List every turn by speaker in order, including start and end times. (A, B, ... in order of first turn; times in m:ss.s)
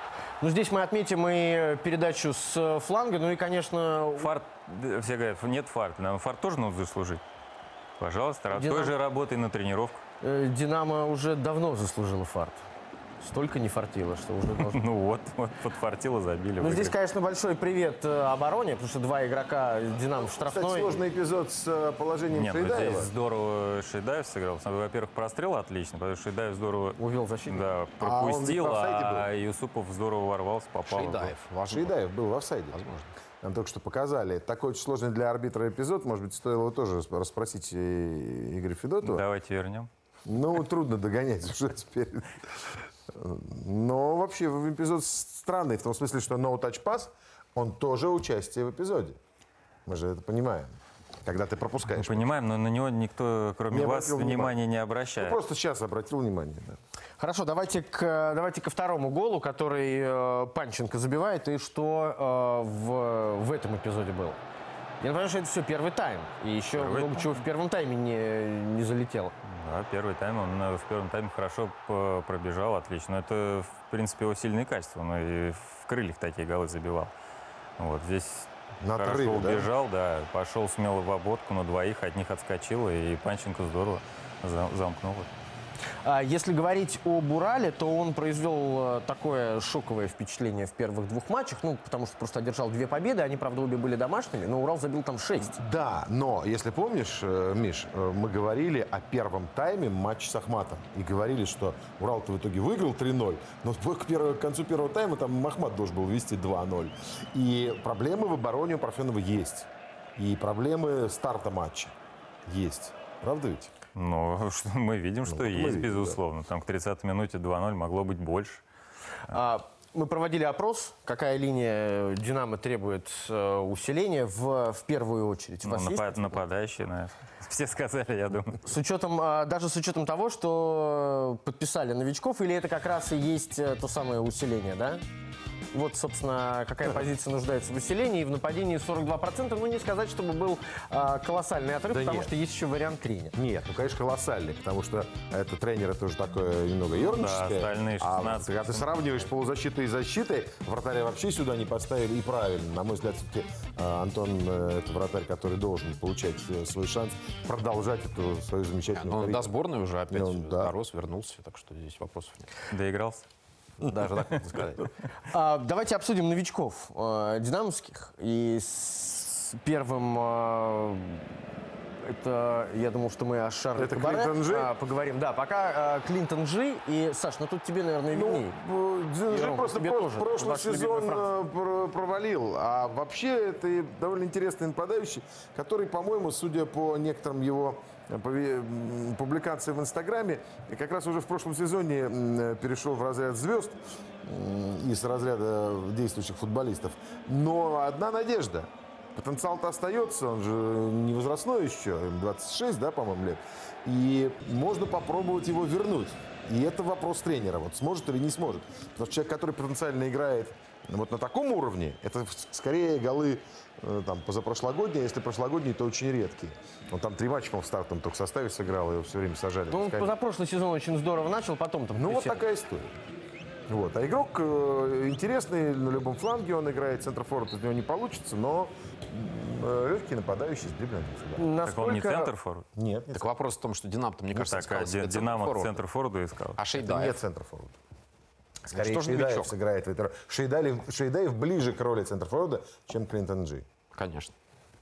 0:00.4-0:04.4 A
0:04.2-0:07.2 B
0:08.0-0:10.0 B
0:08.5-0:08.9 A
0:10.2-0:12.6 A
0:13.2-0:14.8 A
0:14.7-0:16.9 B
0:16.6-0:21.0 A
0:20.4-0:23.1 C
0:22.3-0:31.3 B
0:27.0-0:27.6 A
0:28.0-0:29.3 C
0:30.9-0:32.0 D
0:31.7-0:32.8 C
0:32.7-0:33.1 D
0:33.4-0:39.2 C
0:39.0-0:39.9 B
0:40.2-0:49.2 C
0:49.8-0:52.3 C
0:51.9-0:55.4 B
0:53.7-0:54.6 C
0:55.2-0:56.8 C
0:57.2-1:04.4 A
1:05.0-1:09.3 A
1:06.7-1:07.4 B
1:09.4-1:17.1 B
1:17.8-1:25.3 B
1:18.8-1:19.7 C
1:26.0-1:35.6 A
1:35.5-1:51.9 C
1:52.5-1:53.7 C
1:53.9-1:58.6 B
1:55.3-1:56.2 C
1:59.3-2:06.4 A
2:05.6-2:08.6 B
2:08.6-2:15.0 A
2:15.7-2:23.3 A
2:21.9-2:22.3 C
2:23.3-2:39.5 C
2:27.0-2:29.2 B
2:38.9-2:42.5 D
2:40.1-2:40.7 C
2:42.7-2:43.2 B
2:43.8-2:44.9 D
2:45.3-2:51.3 A
2:52.0-2:58.5 A
2:53.8-2:54.7 C
2:58.1-3:40.1 C
2:59.3-3:01.3 A
3:39.7-3:42.4 A
3:41.9-3:42.9 C
3:43.7-3:51.5 C
3:51.4-3:52.3 A
3:51.6-3:52.6 B
3:52.7-3:53.2 C
3:53.1-3:55.8 D
3:54.4-3:56.6 B
3:56.6-3:57.2 D
3:56.8-3:57.8 C
3:58.7-3:59.5 D
3:58.7-4:03.6 C
4:03.9-4:04.3 D